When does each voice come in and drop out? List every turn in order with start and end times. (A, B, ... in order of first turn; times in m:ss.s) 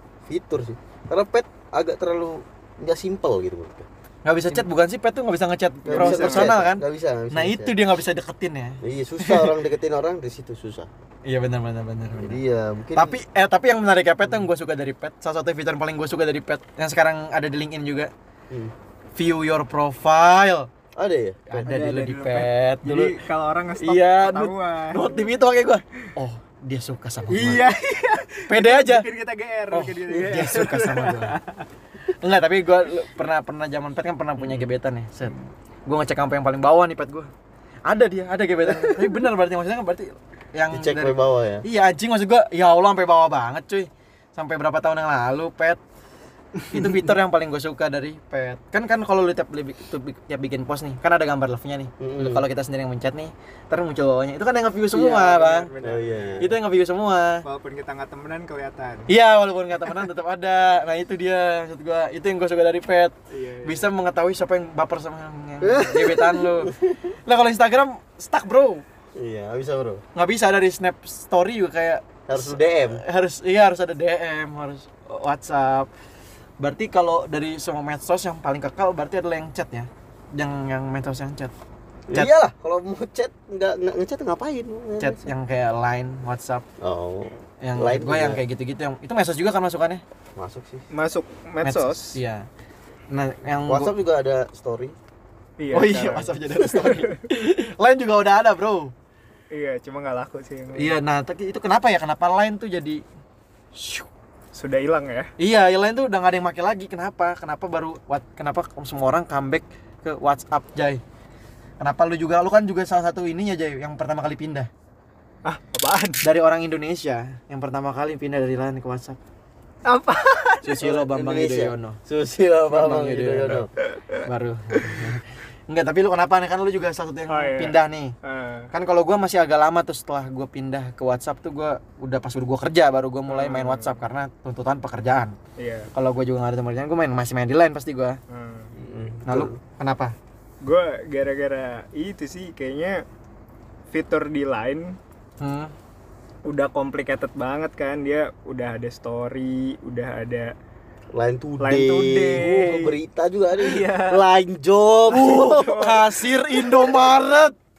0:00.3-0:03.9 A
0:04.2-0:09.6 B
0:05.9-0:07.8 A
0:05.9-0:06.5 C
0:08.8-0:10.9 A
0:11.3-0:12.4 B
0:12.2-0:13.2 A
0:13.0-0:18.1 B
0:19.2-0:20.7 B
0:21.0-0:21.8 A
0:21.5-0:23.2 B
0:21.7-0:25.2 C
0:23.8-0:27.7 B
0:27.3-0:31.7 C
0:28.5-0:29.1 B
0:29.7-0:31.4 B
0:32.2-0:37.3 B
0:37.9-0:45.8 B
0:40.7-0:41.6 A
0:46.6-0:46.9 C
0:46.7-0:55.7 B
0:52.0-0:52.5 A
0:54.9-0:56.5 C
0:55.8-0:56.5 A
0:56.4-0:57.4 B
0:57.4-0:59.1 C
0:59.1-1:08.8 B
1:03.3-1:03.9 C
1:05.6-1:07.0 A
1:09.2-1:10.0 A
1:10.2-1:15.9 B
1:12.3-1:13.0 A
1:16.6-1:21.5 B
1:22.1-1:25.3 A
1:25.0-1:26.6 B
1:26.8-1:28.4 A
1:27.6-1:30.0 B
1:30.4-1:30.9 A
1:30.9-1:32.2 C
1:31.6-1:32.5 B
1:33.1-1:33.9 B
1:33.7-1:35.0 A
1:35.6-1:37.2 C
1:35.7-1:38.9 B
1:39.5-1:40.9 C
1:40.8-1:43.0 B
1:43.7-1:44.1 B
1:44.5-1:45.3 C
1:45.4-1:51.0 B
1:51.8-1:54.7 B
1:55.4-1:56.2 C
1:56.2-1:59.2 B
1:59.9-2:00.8 C
2:00.6-2:02.0 B
2:00.8-2:03.7 A
2:02.7-2:03.7 B
2:03.9-2:04.2 C
2:04.2-2:08.2 B
2:07.3-2:08.7 C
2:08.7-2:15.4 B
2:13.3-2:14.0 C
2:15.6-2:15.9 C
2:15.9-2:18.2 B
2:18.3-2:18.8 C
2:18.8-2:19.6 A
2:19.3-2:20.2 B
2:20.6-2:23.0 C
2:23.9-2:25.0 C
2:25.4-2:25.7 B
2:26.4-2:30.5 C
2:31.1-2:35.9 A
2:31.6-2:33.0 C
2:33.6-2:34.2 C
2:35.1-2:37.6 B
2:35.1-2:36.9 C